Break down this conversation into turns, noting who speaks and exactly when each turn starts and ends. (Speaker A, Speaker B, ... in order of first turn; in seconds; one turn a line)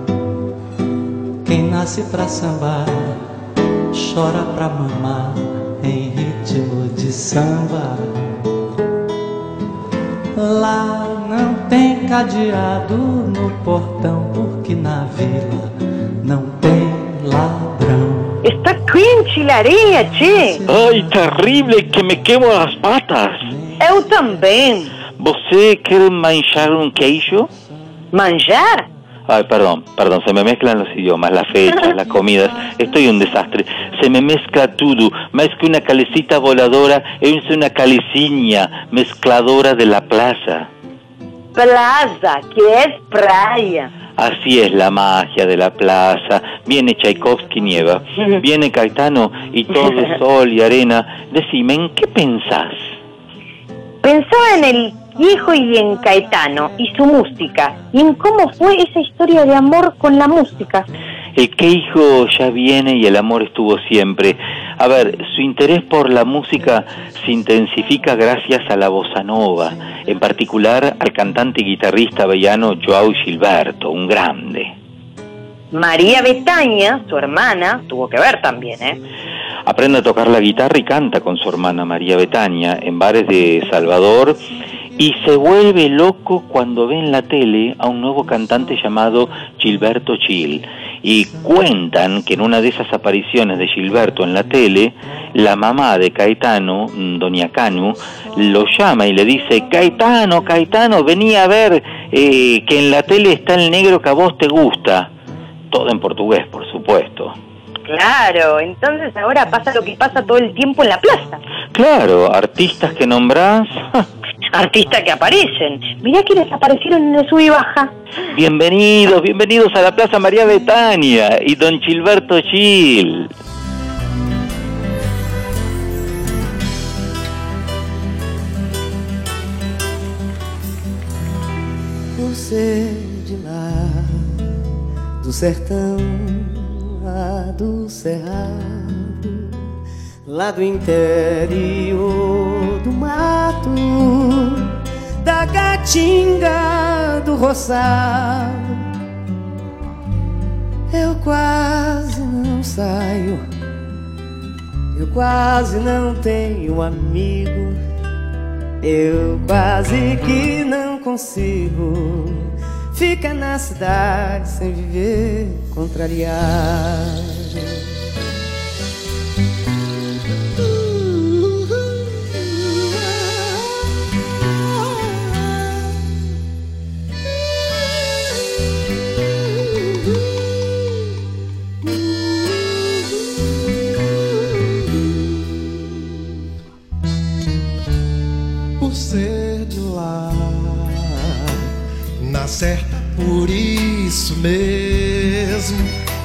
Speaker A: 1.4-3.3
Speaker A: 3.9-8.4
Speaker A: 10.3-18.4
Speaker B: 18.4-20.6
Speaker A: 20.4-22.2
Speaker C: 20.7-23.5
Speaker A: 23.2-24.4
Speaker B: 23.8-24.9
Speaker C: 25.2-27.5
Speaker B: 28.1-28.9
Speaker C: 29.3-40.7
Speaker B: 41.5-43.9
Speaker C: 44.2-52.8
Speaker B: 54.0-60.9
Speaker C: 61.4-74.7
Speaker B: 75.7-79.0
Speaker C: 79.7-84.4
Speaker C: 85.0-105.1
Speaker C: 105.7-107.3
Speaker B: 107.9-111.4
Speaker C: 111.7-114.1
Speaker B: 114.5-117.9
Speaker C: 118.3-123.3
Speaker D: 132.1-134.3
Speaker D: 135.2-139.5
Speaker D: 140.3-144.6
Speaker D: 145.2-148.8
Speaker D: 150.9-153.4
Speaker D: 154.9-157.8
Speaker D: 158.8-167.7
Speaker E: 188.8-191.5
Speaker E: 192.2-195.9